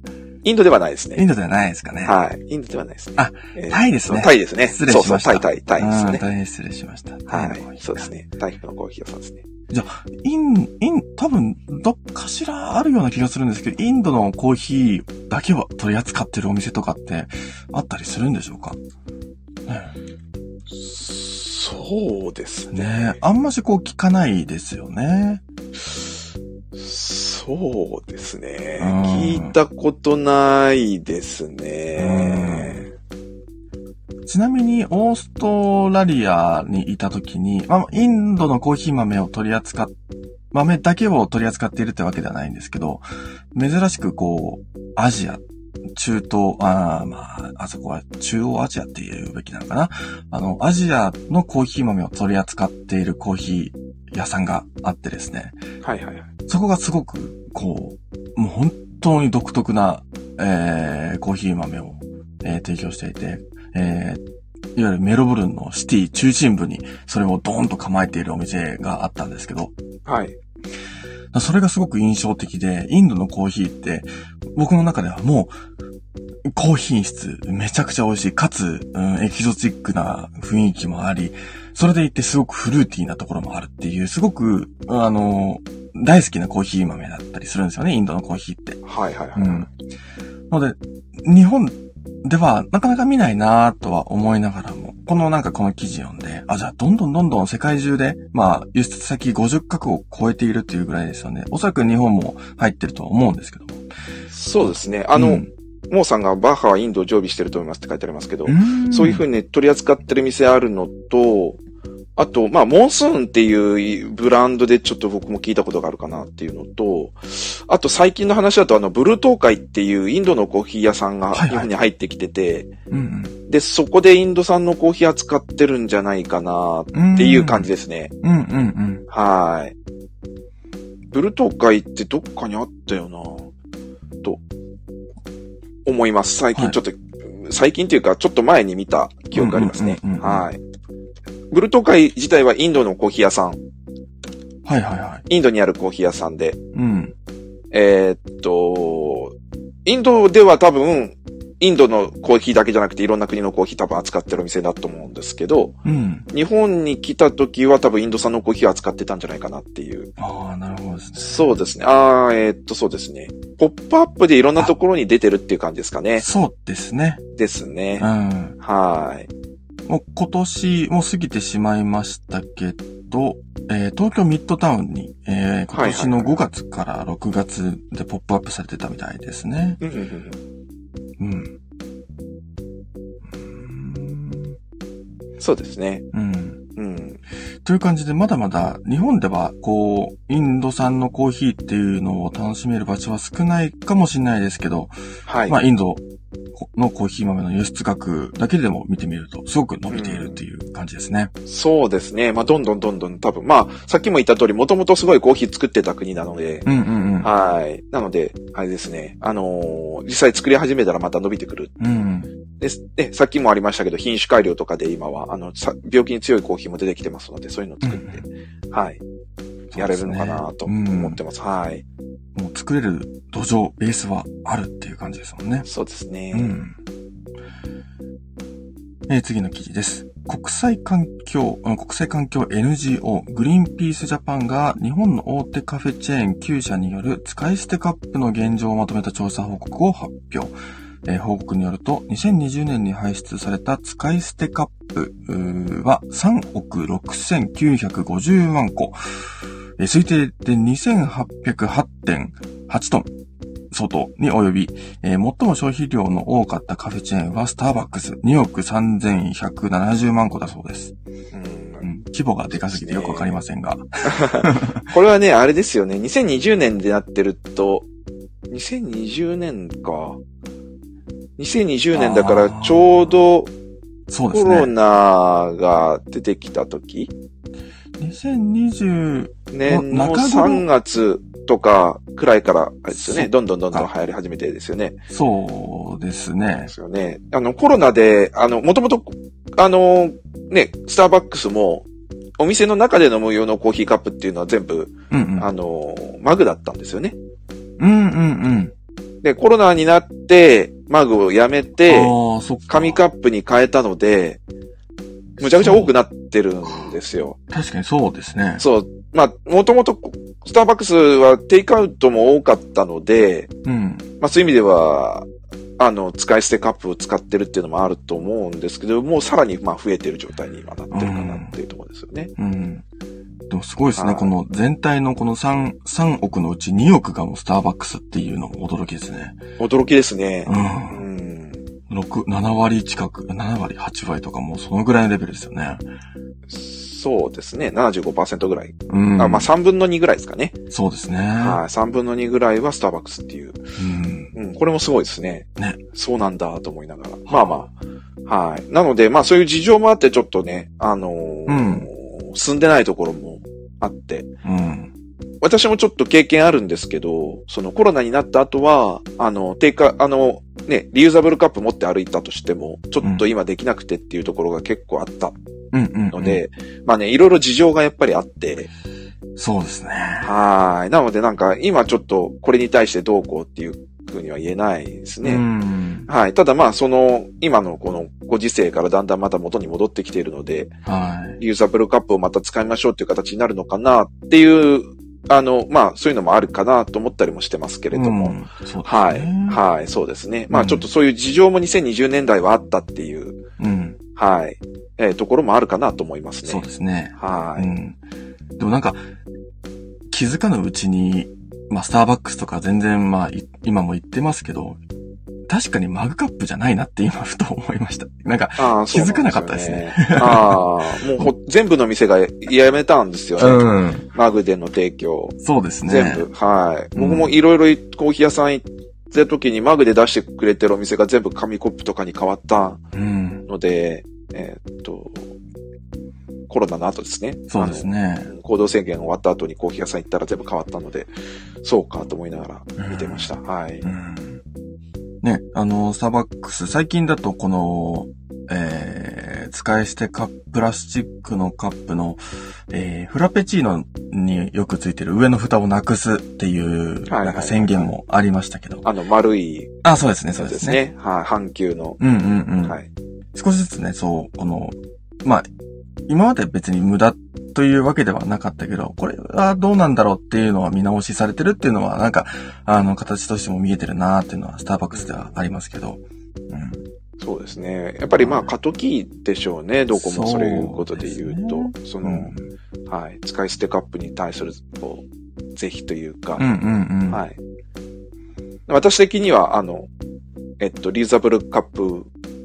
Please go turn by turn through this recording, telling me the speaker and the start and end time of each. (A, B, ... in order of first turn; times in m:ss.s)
0:00.4-0:01.2 A
0:01.2-0:02.1 B
0:02.0-0:06.2 A
0:03.2-0:08.1 B
0:07.3-0:09.4 A
0:09.7-0:18.8 B
0:19.7-0:19.9 B
0:20.7-0:23.2 A
0:22.7-0:25.4 B
0:26.8-0:32.9 A
0:28.8-0:29.6 B
0:32.0-0:32.8 B
0:34.3-0:39.9 B
0:40.5-0:45.4 B
0:46.0-0:55.6 B
0:55.8-0:56.3 A
0:56.5-1:04.2 B
1:04.8-1:09.7 B
1:10.1-1:10.4 A
1:11.3-1:15.5 B
1:16.5-1:28.8 B
1:28.8-1:29.7 A
1:29.4-1:29.7 B
1:30.5-1:43.8 B
1:44.3-1:51.6 A
1:44.6-1:45.5 B
1:48.5-1:49.2 B
1:52.2-2:02.7 A
2:01.3-2:01.7 B
2:02.9-2:03.4 B
2:03.5-2:08.1 A
2:06.9-2:07.7 B
2:08.2-2:09.0 B
2:09.1-2:09.8 A
2:11.1-2:13.5 A
2:15.9-2:20.6 A
2:19.3-2:20.5 B
2:21.5-2:23.6 A
2:24.6-2:25.2 B
2:25.3-2:26.6 A
2:26.7-2:27.1 B
2:27.7-2:29.4 A
2:29.9-2:35.8 A
2:35.8-2:36.3 B
2:36.3-2:40.1 A
2:40.2-2:41.6 B
2:41.2-2:46.3 A
2:46.2-2:47.2 B
2:47.4-2:48.1 A
2:48.0-2:48.6 B
2:48.6-2:49.3 A
2:49.9-2:59.8 B
2:55.7-2:56.4 A
2:59.8-3:00.4 A
3:01.2-3:01.5 B
3:03.3-3:04.6 B
3:05.4-3:06.0 A
3:06.1-3:06.6 B
3:06.8-3:07.2 A
3:07.6-3:14.9 B
3:15.3-3:15.6 A
3:15.5-3:16.0 B
3:16.6-3:21.3 B
3:19.9-3:20.4 A
3:21.5-3:26.7 A
3:26.6-3:27.3 B
3:27.2-3:31.7 A
3:31.8-3:32.3 B
3:32.6-3:39.0 A
3:37.8-3:38.2 B
3:39.7-3:41.2 B
3:39.8-3:41.8 A
3:42.4-3:45.7 B
3:45.6-3:46.6 A
3:46.3-3:46.8 B
3:49.1-4:00.5 B
4:01.0-4:09.0 B
4:09.8-4:13.1 B
4:13.7-4:20.9 B
4:21.3-4:21.9 A
4:21.8-4:24.9 B
4:22.5-4:23.4 A
4:24.0-4:27.9 A
4:28.5-4:30.2 A
4:31.4-4:33.5 A
4:31.9-4:33.2 B
4:34.1-4:34.7 B
4:34.3-4:37.1 A
4:38.0-4:40.7 B
4:39.5-4:45.0 A
4:42.9-4:43.9 B
4:45.1-4:46.7 B
4:46.7-4:51.9 A
4:52.4-4:57.2 A
4:55.1-4:55.5 B
4:57.8-4:58.7 B
4:59.2-5:02.1 A
5:01.9-5:03.0 B
5:02.7-5:04.4 A
5:05.4-5:07.4 A
5:05.4-5:05.9 B
5:07.5-5:08.6 B
5:08.6-5:13.5 A
5:13.6-5:14.1 B
5:14.2-5:15.3 A
5:15.8-5:22.3 A
5:20.9-5:21.5 B
5:22.4-5:22.8 B
5:23.5-5:29.4 B
5:24.0-5:24.3 A
5:29.6-5:31.6 A
5:30.5-5:31.0 B
5:31.9-5:35.8 B
5:36.5-5:40.6 A
5:38.9-5:39.5 B
5:40.7-5:41.6 B
5:41.4-5:43.6 A
5:43.8-5:44.3 B
5:44.3-5:47.7 A
5:47.3-5:47.7 B
5:48.3-5:54.3 A
5:51.5-5:51.9 B
5:54.4-5:54.9 B
5:55.4-6:05.4 A
6:03.0-6:03.3 B
6:05.7-6:06.4 B
6:06.1-6:08.7 A
6:09.4-6:10.3 B
6:10.2-6:15.4 A
6:15.2-6:16.1 B
6:16.1-6:20.7 A
6:20.8-6:21.4 B
6:21.4-6:33.4 A
6:27.9-6:29.6 B
6:30.5-6:30.8 B
6:33.6-6:34.0 B
6:34.2-6:37.7 A
6:36.4-6:38.0 B
6:38.6-6:39.0 B
6:40.1-6:44.8 B
6:45.5-6:50.6 B
6:48.6-7:02.8 A
6:53.4-6:54.1 B
6:55.4-6:56.3 B
6:57.0-6:57.3 B
7:02.9-7:03.4 B
7:03.5-7:05.3 A
7:06.5-7:11.1 A
7:07.5-7:08.3 B
7:11.6-7:13.9 A
7:12.8-7:13.3 B
7:13.8-7:14.4 B
7:15.2-7:28.9 B
7:27.1-7:27.9 A
7:28.8-7:29.8 A
7:29.8-7:30.8 B
7:30.4-7:32.0 A
7:32.0-7:32.8 B
7:33.3-7:35.5 B
7:36.1-7:46.8 B
7:44.9-7:45.4 A
7:47.2-7:52.3 A
7:48.2-7:48.5 B
7:49.9-7:52.5 B
7:52.9-7:56.5 A
7:56.4-7:57.2 B
7:57.1-7:57.4 A
7:58.7-7:59.9 A
8:00.6-8:02.1 A